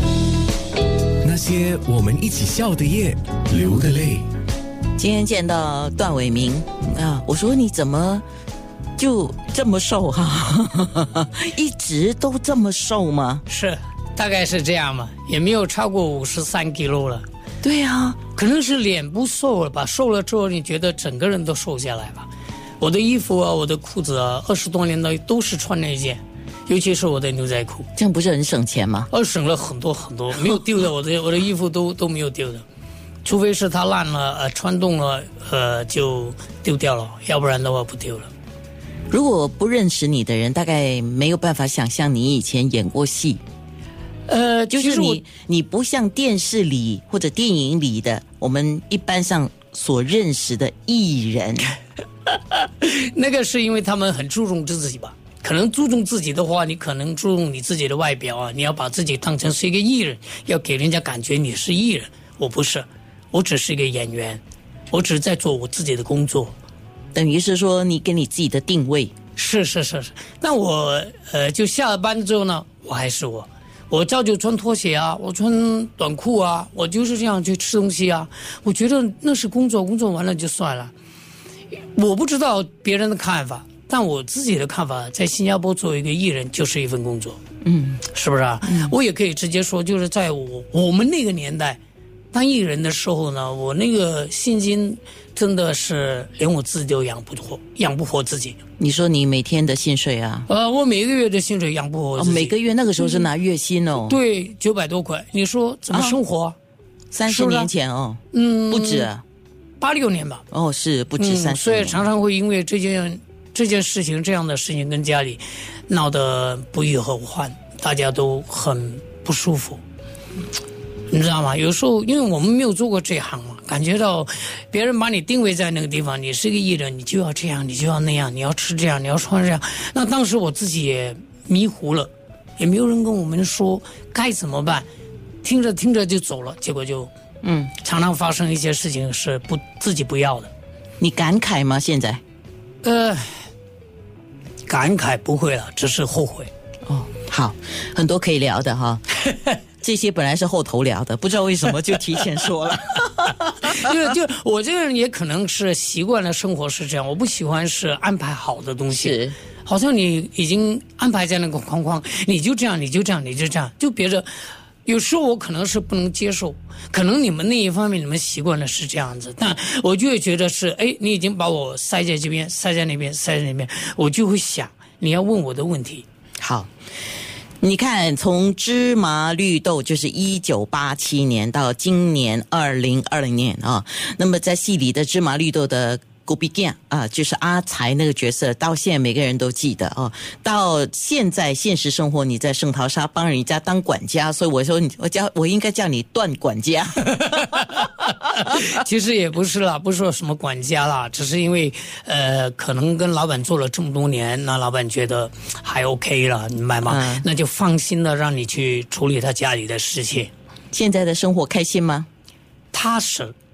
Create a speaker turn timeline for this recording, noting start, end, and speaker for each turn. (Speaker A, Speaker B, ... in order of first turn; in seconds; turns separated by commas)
Speaker A: 1.2-4.2, Speaker B: 5.0-8.2, Speaker B: 9.0-13.4, Speaker C: 13.5-17.2, Speaker B: 17.6-18.2, Speaker C: 18.3-22.3, Speaker C: 22.8-27.9, Speaker B: 28.0-29.1, Speaker C: 29.1-32.6, Speaker C: 33.2-38.3, Speaker B: 39.1-43.4, Speaker C: 44.3-45.2, Speaker B: 44.7-51.7, Speaker C: 52.3-66.5, Speaker B: 67.1-69.1, Speaker C: 69.3-80.9, Speaker C: 81.9-87.4, Speaker B: 87.6-88.0, Speaker C: 88.0-91.8, Speaker B: 88.6-88.9, Speaker C: 92.3-98.6, Speaker B: 98.8-100.5, Speaker C: 100.5-103.3, Speaker B: 102.2-104.2, Speaker C: 104.0-106.5, Speaker B: 105.9-106.2, Speaker B: 107.1-109.2, Speaker C: 107.2-107.7, Speaker C: 108.3-109.1, Speaker C: 109.8-110.4, Speaker B: 110.5-112.1, Speaker C: 111.2-119.8, Speaker C: 121.1-134.9, Speaker C: 135.4-137.1, Speaker B: 137.4-137.7, Speaker C: 137.7-140.5, Speaker B: 141.0-142.2, Speaker C: 142.8-143.3, Speaker C: 144.7-146.5, Speaker B: 146.9-149.0, Speaker B: 149.8-153.9, Speaker C: 153.6-164.2, Speaker B: 158.9-159.4, Speaker C: 164.8-176.0, Speaker B: 176.4-176.7, Speaker B: 177.6-197.2, Speaker C: 197.1-210.3, Speaker B: 206.9-207.2, Speaker B: 210.7-212.1, Speaker C: 212.7-213.3